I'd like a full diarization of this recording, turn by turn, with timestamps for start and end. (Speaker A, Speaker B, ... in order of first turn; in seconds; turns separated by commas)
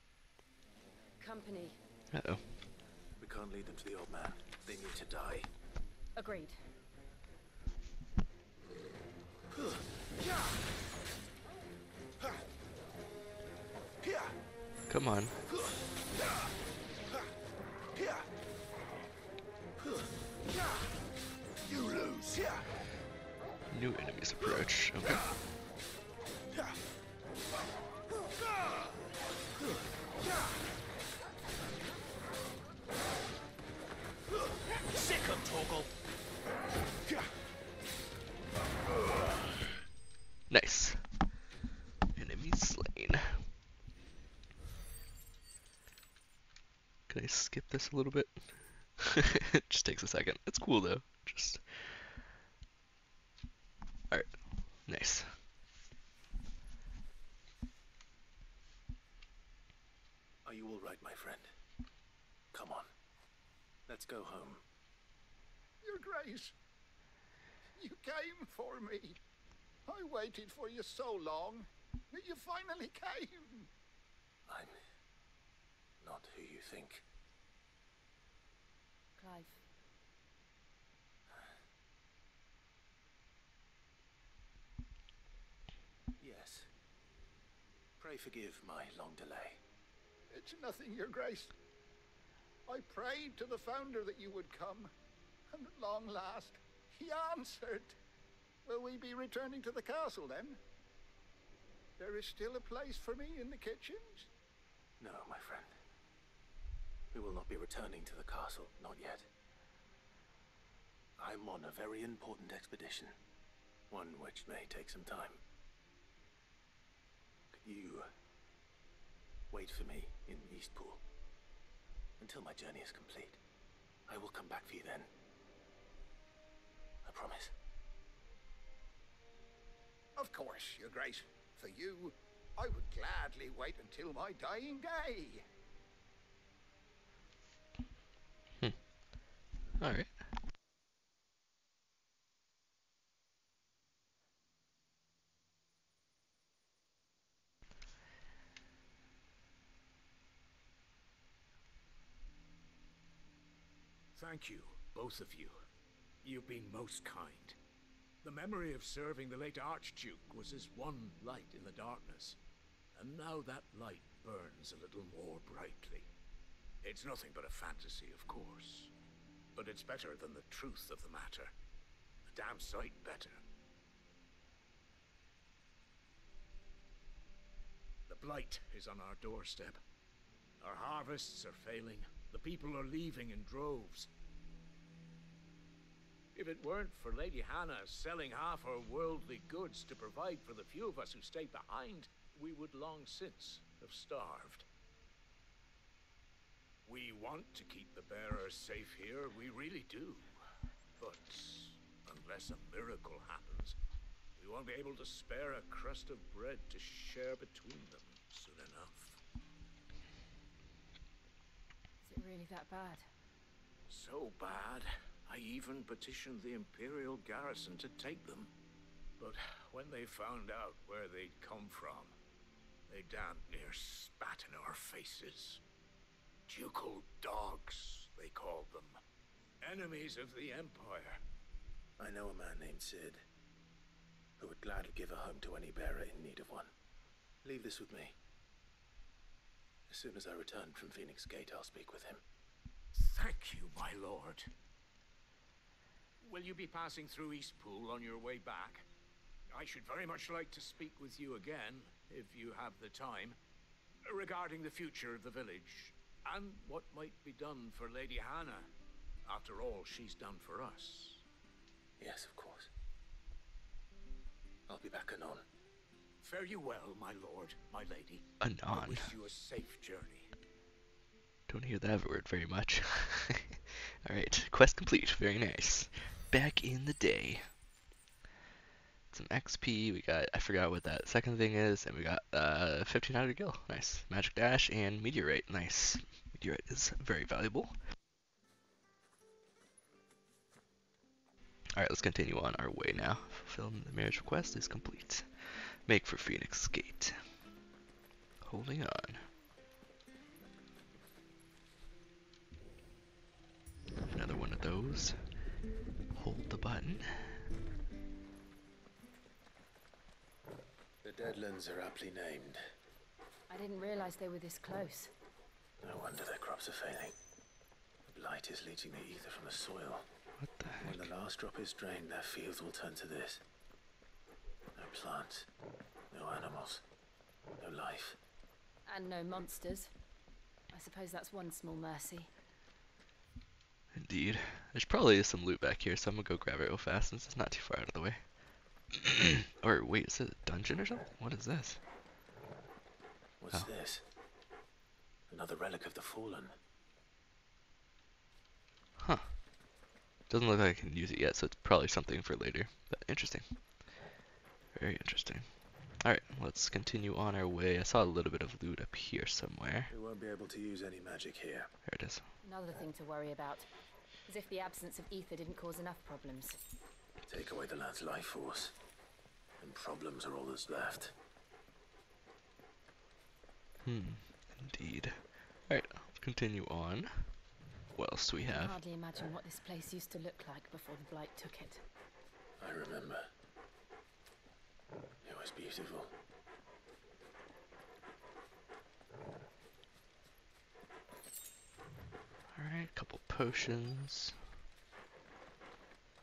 Speaker A: 1.2-1.8, Speaker B: 2.1-2.4, Speaker C: 3.2-5.5, Speaker A: 6.2-6.6, Speaker C: 9.5-9.8, Speaker B: 14.9-15.3, Speaker C: 21.7-22.6, Speaker B: 23.7-25.2, Speaker C: 34.9-35.9, Speaker B: 40.5-41.0, Speaker B: 42.1-43.4, Speaker B: 47.1-48.5, Speaker B: 49.0-51.6, Speaker B: 54.1-55.3, Speaker C: 60.4-61.5, Speaker C: 62.5-62.9, Speaker C: 63.9-64.6, Speaker D: 65.8-66.5, Speaker D: 67.8-69.2, Speaker D: 69.8-73.7, Speaker C: 74.5-74.7, Speaker C: 76.0-77.0, Speaker A: 79.2-79.6, Speaker C: 86.2-86.7, Speaker C: 88.0-89.6, Speaker D: 90.3-91.5, Speaker D: 92.7-94.9, Speaker D: 95.5-98.0, Speaker D: 98.6-100.6, Speaker D: 102.0-104.3, Speaker C: 105.0-105.7, Speaker C: 107.1-109.3, Speaker C: 111.2-113.2, Speaker C: 113.9-115.4, Speaker C: 117.5-118.1, Speaker C: 119.5-121.0, Speaker C: 122.2-123.4, Speaker C: 124.1-125.1, Speaker C: 127.0-127.5, Speaker D: 130.2-135.4, Speaker B: 139.8-140.1, Speaker E: 154.2-155.7, Speaker E: 156.2-157.6, Speaker E: 158.2-162.4, Speaker E: 162.9-166.1, Speaker E: 166.8-168.9, Speaker E: 169.5-171.5, Speaker E: 172.3-173.4, Speaker E: 178.1-179.8, Speaker E: 180.6-184.1, Speaker E: 186.3-194.7, Speaker E: 196.8-200.3, Speaker E: 201.0-203.8, Speaker E: 204.4-209.2, Speaker A: 212.0-213.1, Speaker E: 213.9-218.5, Speaker E: 219.2-222.2, Speaker E: 222.9-225.6, Speaker E: 226.5-229.0, Speaker E: 229.6-231.2, Speaker C: 232.0-233.2, Speaker C: 234.4-236.7, Speaker C: 237.4-238.2, Speaker C: 239.9-242.2, Speaker E: 242.9-244.5, Speaker E: 246.2-248.9, Speaker E: 249.5-253.4, Speaker E: 254.1-258.7, Speaker E: 259.2-261.2, Speaker C: 262.0-262.7, Speaker C: 264.7-265.4, Speaker E: 266.2-270.3, Speaker B: 268.4-269.1, Speaker B: 271.5-277.4, Speaker B: 279.1-287.7, Speaker B: 291.8-295.2, Speaker B: 295.9-297.1, Speaker B: 298.4-299.2, Speaker B: 304.1-305.2, Speaker B: 306.1-307.4, Speaker C: 311.0-312.6, Speaker A: 313.5-315.1, Speaker C: 315.8-317.1, Speaker C: 318.0-320.1, Speaker B: 320.4-321.1, Speaker C: 320.8-323.4, Speaker C: 324.8-325.5, Speaker C: 326.1-326.8, Speaker C: 327.6-328.2, Speaker A: 328.9-329.9, Speaker A: 330.7-332.3, Speaker B: 333.9-338.2, Speaker B: 339.0-341.8, Speaker C: 343.4-344.0, Speaker C: 345.3-346.5, Speaker B: 349.0-349.3, Speaker B: 350.3-353.4, Speaker B: 354.7-355.4, Speaker B: 356.0-359.9, Speaker C: 359.9-361.7, Speaker B: 361.9-362.2, Speaker A: 362.4-363.7, Speaker A: 364.2-366.6, Speaker C: 367.3-368.7, Speaker C: 369.6-371.1, Speaker B: 373.8-377.3, Speaker B: 377.9-378.8, Speaker A: 378.5-381.8, Speaker C: 382.6-383.2, Speaker C: 385.2-386.1, Speaker B: 392.5-394.3